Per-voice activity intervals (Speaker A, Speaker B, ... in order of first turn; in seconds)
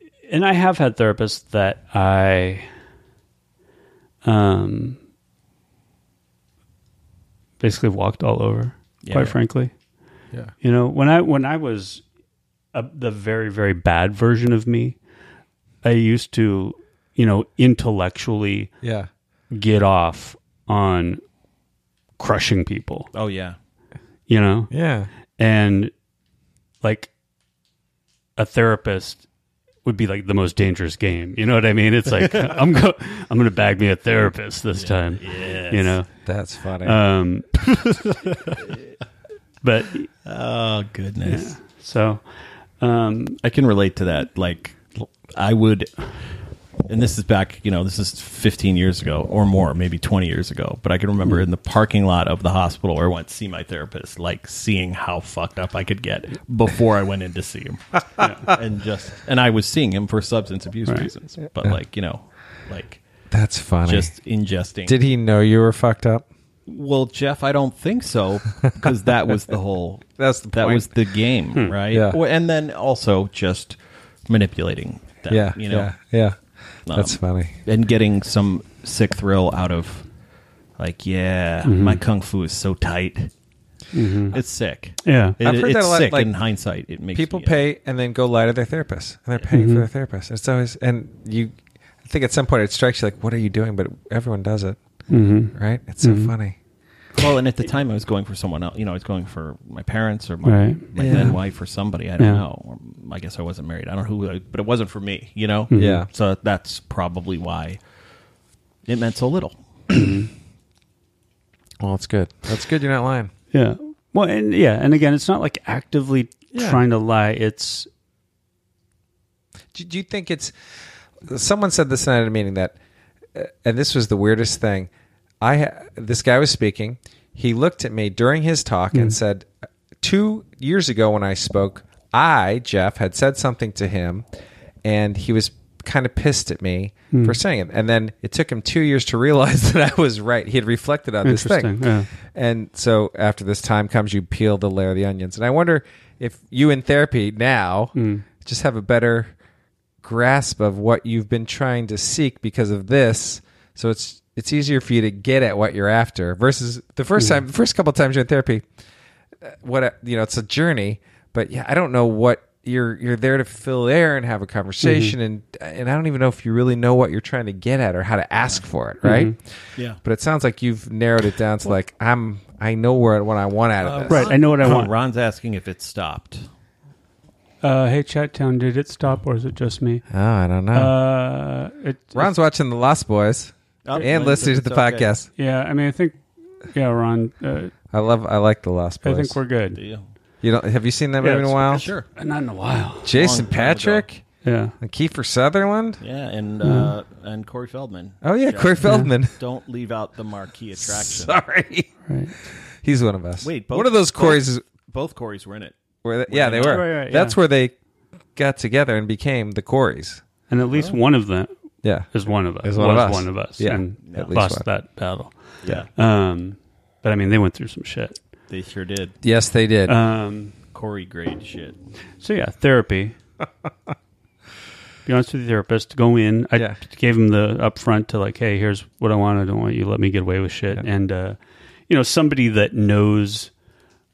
Speaker A: 0.3-2.7, 4.2-5.0, 7.6-9.7, 10.6-12.0, 12.7-15.0, 15.8-18.7, 19.5-21.2, 22.2-23.1, 24.3-24.7, 25.4-25.9, 26.8-27.1, 28.4-29.2, 29.9-36.1, 36.8-37.7, 39.6-40.1, 41.3-42.3, 42.8-43.4, 58.2-58.5, 81.6-82.0, 83.9-84.4, 85.0-85.4, 89.5-89.9, 95.1-96.3, 100.4-101.3, 105.7-106.0, 109.9-110.3, 113.5-117.9, 137.1-137.4, 141.2-142.1, 147.9-148.2, 164.8-165.1, 169.0-169.3, 174.1-174.9, 177.6-180.1, 180.7-182.3, 185.4-187.7, 189.0-189.8, 191.2-193.2, 194.4-194.8, 196.6-196.9, 198.8-199.1, 202.1-202.3, 206.5-207.4, 210.5-211.5, 212.1-218.2, 219.9-220.6, 222.2-223.2, 225.1-231.4, 231.9-233.5
Speaker B: 9.0-9.4, 23.1-23.6, 32.3-32.5, 34.7-36.0, 38.0-38.6, 40.2-41.5, 43.4-45.9, 46.9-63.0, 63.9-65.0, 66.7-75.9, 76.9-80.1, 80.8-83.3, 84.3-87.6, 97.2-107.8, 108.9-109.6, 173.8-176.5, 183.8-185.1, 189.7-190.1, 191.7-192.1, 193.1-194.1, 196.0-201.4, 203.4-205.8, 206.3-206.8, 210.7-211.0, 214.1-214.3, 215.6-215.9, 218.5-219.2, 220.7-221.8
Speaker C: 18.8-19.1, 24.7-25.1, 36.3-37.0, 63.3-64.1, 64.9-66.2, 70.2-71.0, 71.9-72.2, 75.3-77.5, 85.4-86.3, 87.1-94.8, 95.5-96.6, 101.0-101.3, 105.8-106.1, 111.8-113.3, 116.5-116.8, 119.7-120.5, 121.2-122.8, 123.3-124.9, 125.4-129.5, 130.0-134.2, 134.8-149.3, 150.0-158.6, 159.4-174.3, 180.1-180.9, 182.2-185.3, 187.9-189.4, 190.4-191.9, 193.1-194.2, 194.8-196.0, 198.2-199.4, 200.8-201.9, 202.7-204.6, 206.0-207.7, 208.3-210.2, 212.6-214.7, 219.2-219.9